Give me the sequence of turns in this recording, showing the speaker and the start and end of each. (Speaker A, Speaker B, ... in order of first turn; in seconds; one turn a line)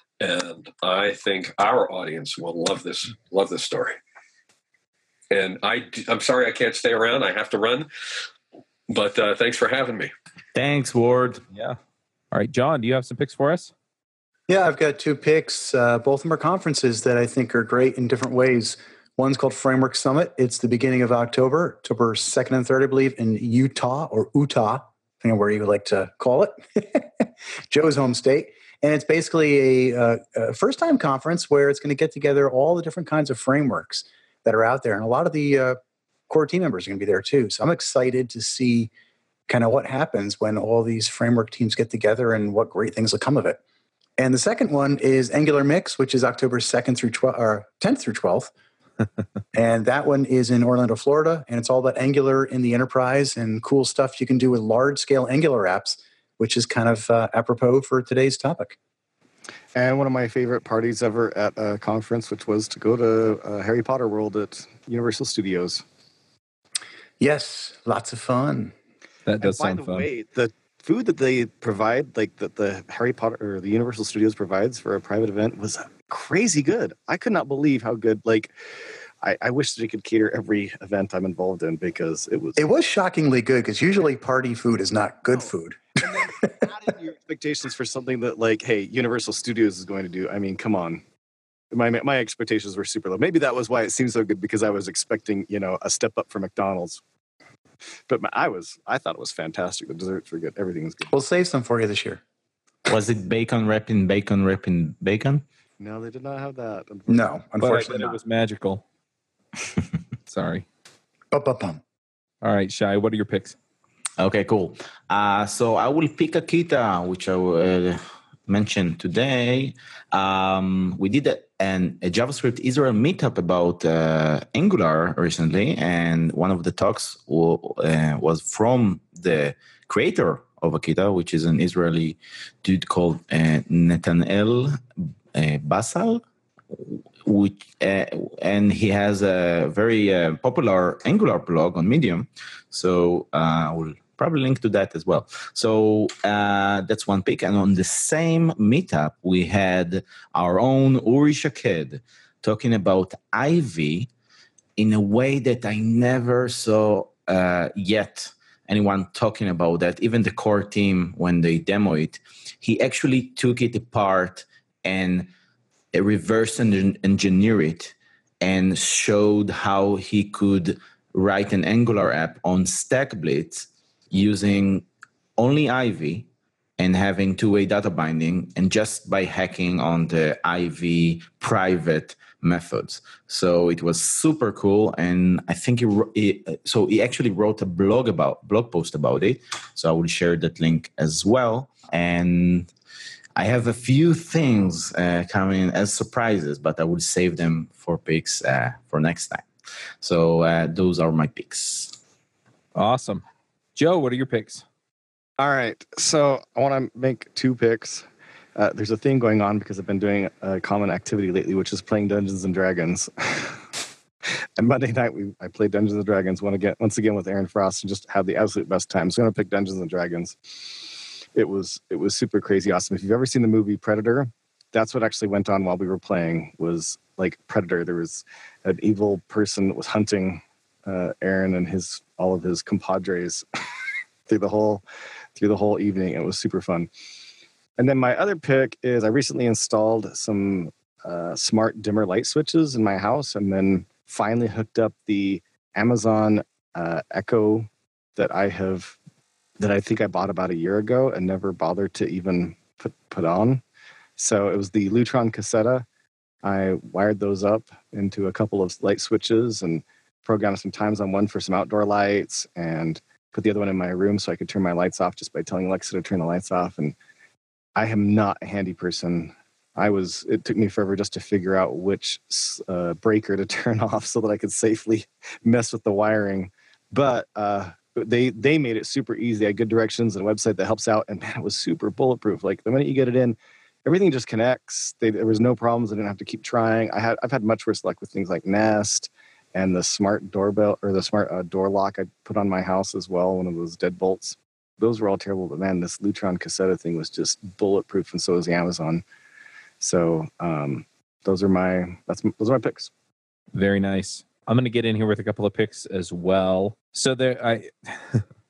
Speaker A: 0.2-4.0
Speaker A: 5.3-7.9
Speaker A: 8.9-10.1
Speaker B: 10.6-11.4
Speaker C: 11.5-11.8
Speaker C: 12.3-13.7
Speaker D: 14.5-35.8
Speaker D: 36.3-38.9
Speaker D: 39.5-43.6
Speaker D: 44.2-48.5
Speaker D: 49.5-58.8
Speaker E: 59.8-65.8
Speaker D: 67.2-68.7
Speaker C: 69.3-70.1
Speaker E: 69.4-78.5
Speaker E: 79.2-82.6
Speaker D: 82.6-86.6
Speaker E: 85.3-91.0
Speaker E: 91.7-97.0
Speaker E: 98.1-101.2
Speaker D: 101.1-102.2
Speaker B: 102.9-105.4
Speaker E: 105.8-107.4
Speaker D: 107.1-108.2
Speaker C: 107.6-108.8
Speaker C: 110.3-110.7
Speaker D: 111.3-111.8
Speaker C: 112.4-113.6
Speaker B: 114.2-154.1
Speaker B: 154.8-165.3
Speaker B: 165.9-174.8
Speaker B: 175.4-176.3
Speaker B: 176.8-192.7
Speaker B: 193.4-199.5
Speaker B: 200.0-202.0
Speaker C: 202.8-203.2
Speaker C: 203.8-204.7
Speaker E: 205.4-213.7
Speaker E: 214.6-233.4
Speaker E: 234.3-234.8
Speaker E: 235.4-236.9
Speaker E: 237.8-249.0
Speaker E: 249.6-253.6
Speaker E: 254.2-255.9
Speaker E: 256.4-266.9
Speaker E: 267.8-299.0
Speaker E: 299.8-302.9
Speaker C: 303.5-308.2